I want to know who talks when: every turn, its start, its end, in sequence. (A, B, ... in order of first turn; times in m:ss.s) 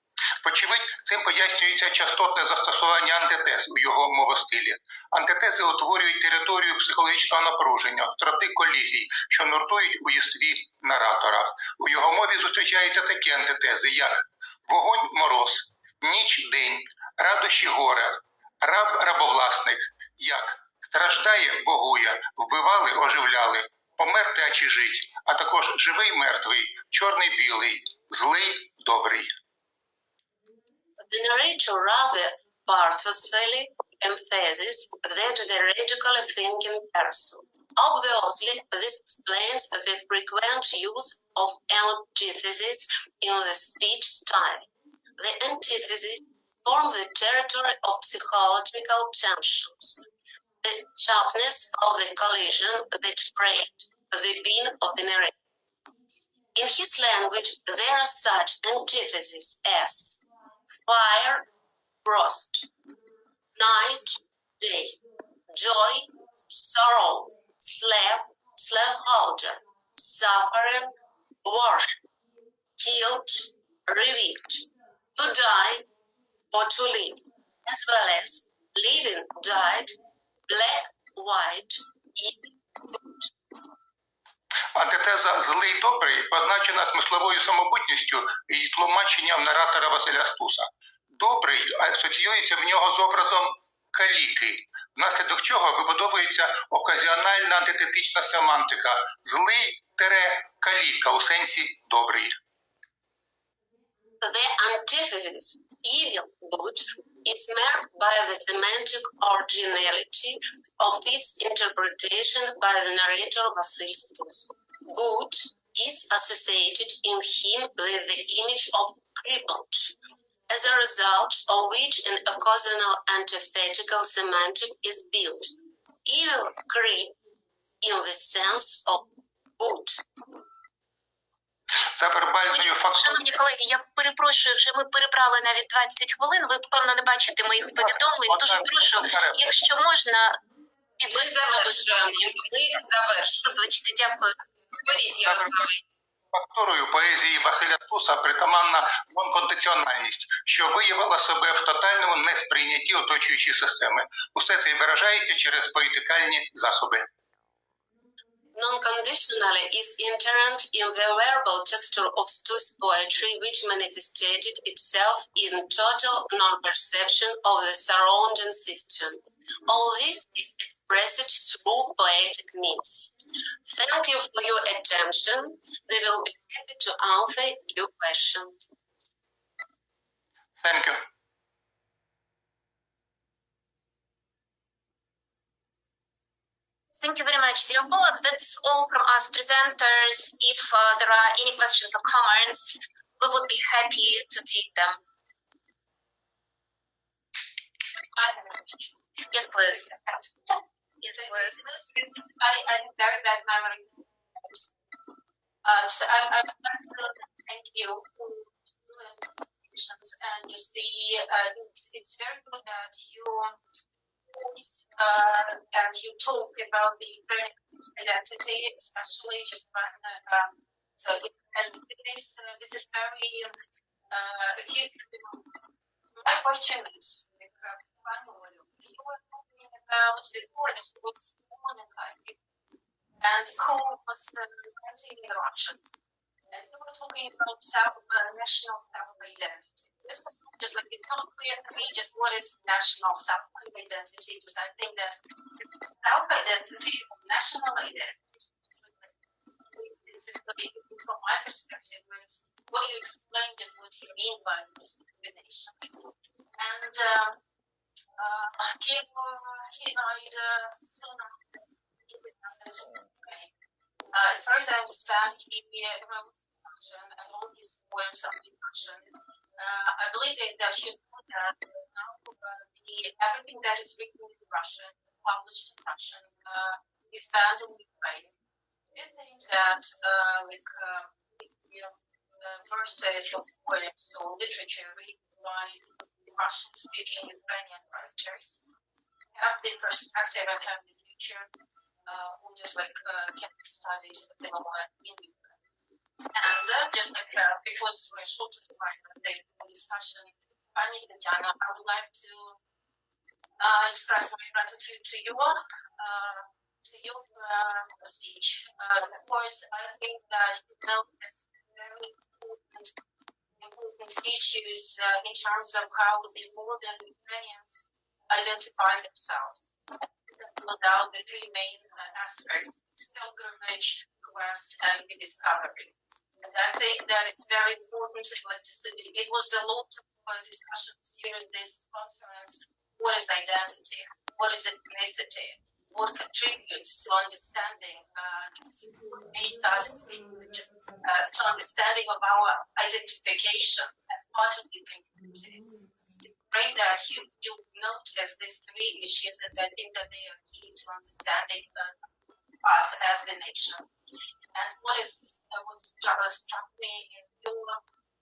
0:00.4-0:29.3 A
0:31.0-0:44.7 B
0:45.2-0:50.1 B
0:50.6-0:55.3 B
0:56.6-1:00.2 B
1:00.9-1:01.5 B
1:02.0-1:02.7 B
1:03.6-1:10.9 B
1:11.4-1:12.0 B
1:12.8-1:15.9 B
1:16.5-1:20.0 B
1:20.5-1:23.3 B
1:24.7-1:42.4 A
1:44.2-2:00.0 B
2:00.5-2:05.5 B
2:06.0-2:07.2 B
2:07.8-2:10.0 B
2:11.9-2:13.3 A
2:12.5-2:20.4 C
2:17.8-2:19.5 A
2:21.0-2:25.8 C
2:21.1-2:23.4 B
2:25.2-2:25.5 A
2:26.3-2:37.1 A
2:38.5-2:58.6 B
3:00.6-3:01.0 A
3:07.0-3:15.0 C
3:18.1-3:19.0 D
3:19.3-3:19.9 C
3:19.6-3:20.5 D
3:21.0-3:21.6 C
3:21.0-3:24.7 D
3:25.6-3:33.6 D
3:34.3-3:43.6 D
3:44.1-3:45.4 D
3:46.2-3:52.4 D
3:53.2-3:55.8 D
3:56.5-4:05.2 D
4:06.0-4:09.1 D
4:09.7-4:15.9 D
4:16.6-4:17.4 D
4:18.2-4:21.6 D
4:22.1-4:23.5 D
4:24.1-4:38.3 D
4:39.0-4:48.7 D
4:49.4-4:51.5 D
4:52.1-4:55.6 D
4:56.3-5:02.6 D
5:03.6-5:12.9 D
5:13.6-5:19.7 D
5:20.3-5:45.6 D
5:46.2-5:51.9 D
5:52.6-5:53.9 D
5:54.5-5:57.8 D